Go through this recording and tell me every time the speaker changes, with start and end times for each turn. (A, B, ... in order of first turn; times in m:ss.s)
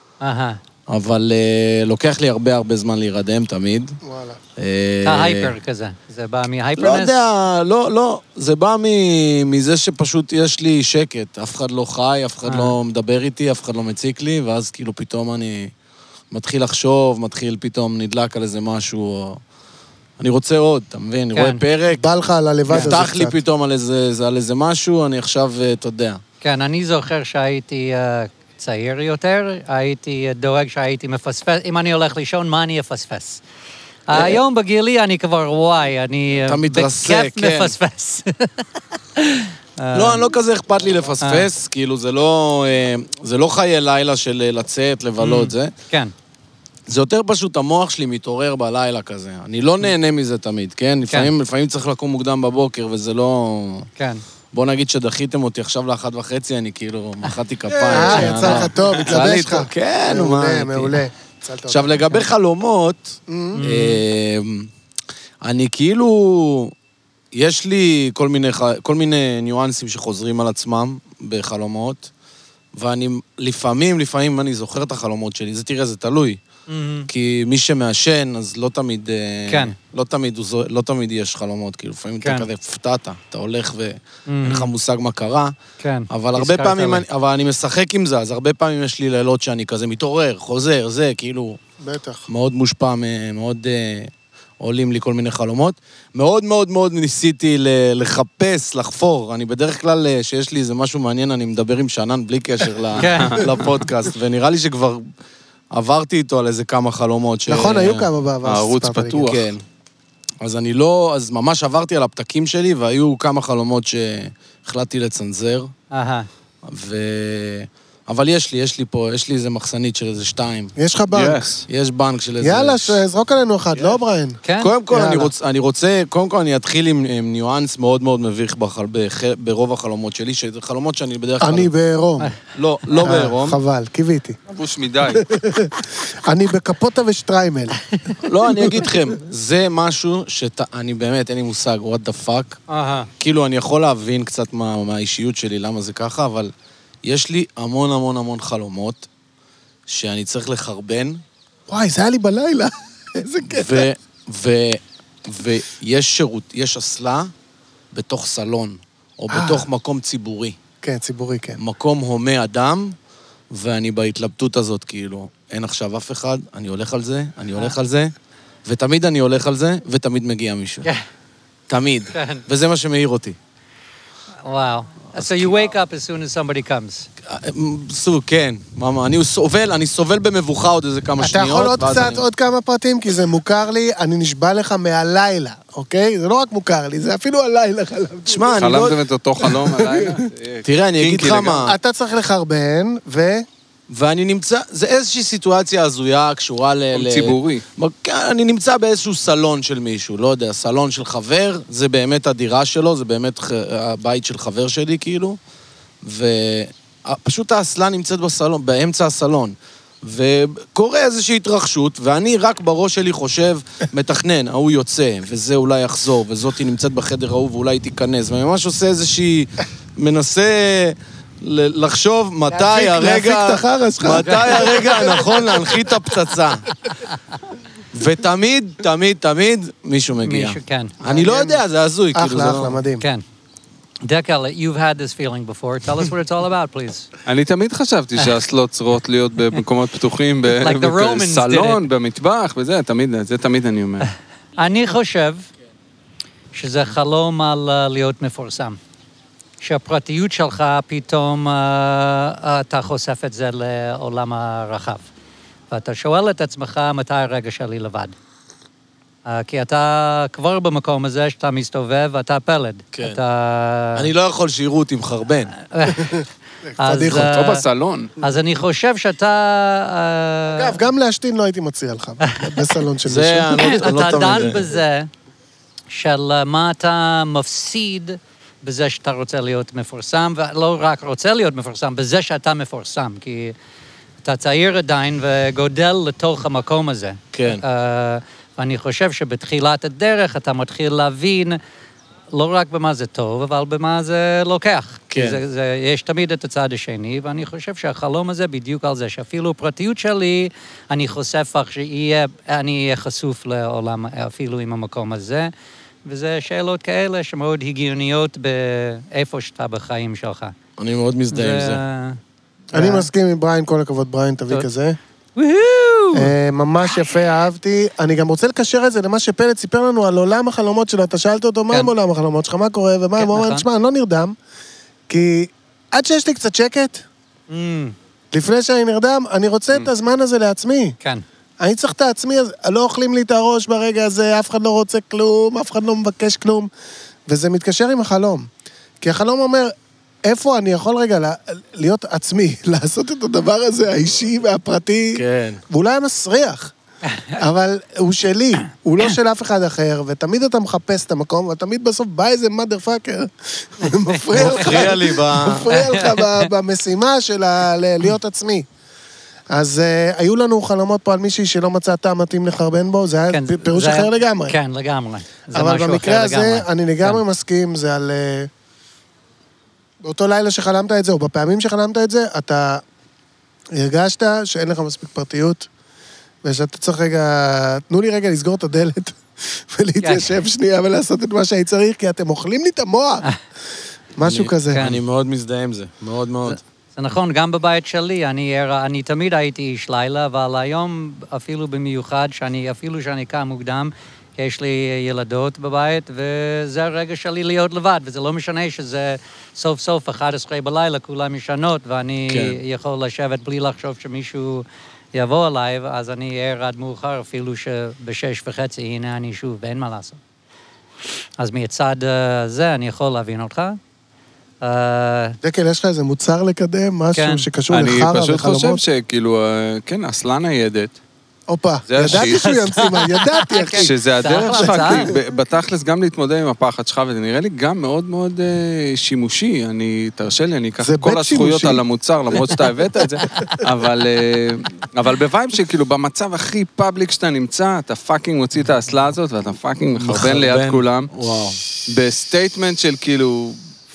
0:00.2-0:00.6 A
0:00.9-0:04.0 B
0:04.0-0:04.4 C
0:04.6-0:05.5 B
0:05.0-0:07.2 A
0:06.8-0:15.7 B
0:12.4-0:12.7 A
0:16.3-0:19.4 B
0:20.2-0:22.1 B
0:21.3-0:21.6 A
0:21.9-0:23.4 C
0:22.7-0:26.2 B
0:26.4-0:33.4 A
0:34.1-0:40.2 A
0:34.1-0:34.4 B
0:36.5-0:37.8 B
0:39.9-0:45.7 B
0:41.2-0:41.4 A
0:45.2-0:46.1 A
0:46.9-0:53.9 B
0:54.5-1:01.0 B
0:57.8-1:02.2 C
0:58.0-0:58.6 A
1:01.7-1:04.7 B
1:03.3-1:03.6 C
1:03.5-1:04.0 A
1:05.4-1:06.7 B
1:07.3-1:12.1 B
1:12.7-1:16.4 B
1:16.7-1:17.1 A
1:17.1-1:25.5 B
1:19.5-1:19.7 A
1:22.2-1:22.5 A
1:24.3-1:24.7 A
1:25.8-1:27.0 A
1:26.1-1:31.6 B
1:31.8-1:32.2 C
1:32.3-1:45.0 B
1:43.0-1:43.5 A
1:43.1-1:43.5 D
1:45.7-1:48.1 B
1:47.5-1:49.3 C
1:48.4-1:49.4 D
1:49.2-1:49.6 B
1:50.4-1:55.7 B
1:55.9-1:56.3 A
1:56.6-2:00.7 B
2:00.8-2:01.5 C
2:01.1-2:01.6 D
2:01.6-2:03.0 B
2:02.4-2:04.4 C
2:04.4-2:05.1 A
2:04.6-2:11.7 B
2:05.0-2:05.3 C
2:11.4-2:12.3 C
2:12.5-2:13.6 B
2:13.0-2:14.4 C
2:14.5-2:15.2 D
2:15.1-2:17.9 C
2:18.2-2:22.6 B
2:18.5-2:18.8 C
2:22.7-2:23.1 A
2:23.2-2:26.5 B
2:27.0-2:29.1 B
2:29.9-2:31.2 B
2:31.7-2:33.9 C
2:33.4-2:37.3 B
2:37.9-2:40.6 B
2:39.3-2:39.6 C
2:40.8-2:41.6 C
2:41.6-2:43.0 B
2:43.5-2:48.1 B
2:48.6-2:50.8 B
2:51.7-2:53.4 B
2:52.1-2:52.4 A
2:54.4-2:57.1 A
2:55.2-2:55.6 B
2:57.2-3:02.2 B
3:01.2-3:08.8 C
3:08.3-3:09.0 B
3:08.6-3:11.7 D
3:09.4-3:10.2 C
3:10.6-3:11.8 B
3:11.6-3:13.4 C
3:13.9-3:25.4 B
3:16.9-3:17.6 D
3:26.0-3:46.8 B
3:42.5-3:45.6 C
3:47.9-3:52.8 B
3:50.2-3:51.0 A
3:51.0-3:51.6 C
3:52.1-3:53.0 C
3:54.0-3:57.1 A
3:57.2-4:04.1 D
4:00.6-4:01.8 A
4:04.6-4:05.4 A
4:06.5-4:08.8 A
4:09.6-4:15.0 A
4:15.7-4:18.2 A
4:19.2-4:24.1 A
4:22.9-4:23.2 B
4:23.9-4:25.5 B
4:25.7-4:26.2 A
4:25.9-4:26.2 C
4:26.8-4:27.4 C
4:26.8-4:27.6 A
4:27.1-4:28.1 D
4:28.2-4:30.8 A
4:30.5-4:34.2 C
4:32.3-4:32.6 A
4:33.0-4:34.7 B
4:33.5-4:35.1 A
4:35.9-4:43.5 A
4:44.2-4:51.6 A
4:47.3-4:47.6 B
4:52.3-5:05.5 A
4:55.1-4:55.4 B
5:06.0-5:10.5 A
5:10.8-5:11.8 B
5:11.3-5:12.2 A
5:12.7-5:13.1 A
5:12.7-5:15.0 C
5:15.4-5:16.3 A
5:16.1-5:24.4 C
5:23.2-5:23.7 A
5:25.1-5:27.0 C
5:27.5-5:27.9 A
5:28.3-5:31.0 C
5:31.6-5:36.7 C
5:37.3-5:38.5 C
5:39.0-5:39.7 C
5:40.2-5:46.7 C
5:45.1-5:45.6 B
5:47.1-5:47.4 A
5:47.4-5:58.6 C
5:54.1-5:54.8 A
5:54.3-5:55.7 B
5:55.7-5:56.5 A
5:59.5-6:04.6 C
6:03.3-6:07.2 A
6:05.5-6:08.5 C
6:10.0-6:12.8 C
6:13.7-6:15.7 C
6:16.4-6:23.2 C
6:20.0-6:20.3 A
6:24.2-6:24.8 C
6:24.2-6:26.6 B
6:24.7-6:25.0 A
6:26.4-6:50.2 A
6:42.3-6:42.6 B
6:51.4-6:53.8 A
6:54.6-6:55.4 A
6:55.4-6:58.8 C
6:57.1-6:57.5 A
6:57.7-7:01.0 D
7:01.5-7:05.2 C
7:01.9-7:02.8 D
7:02.1-7:05.1 A
7:03.7-7:21.1 D
7:10.8-7:11.8 C
7:19.9-7:21.6 B
7:21.9-7:23.6 D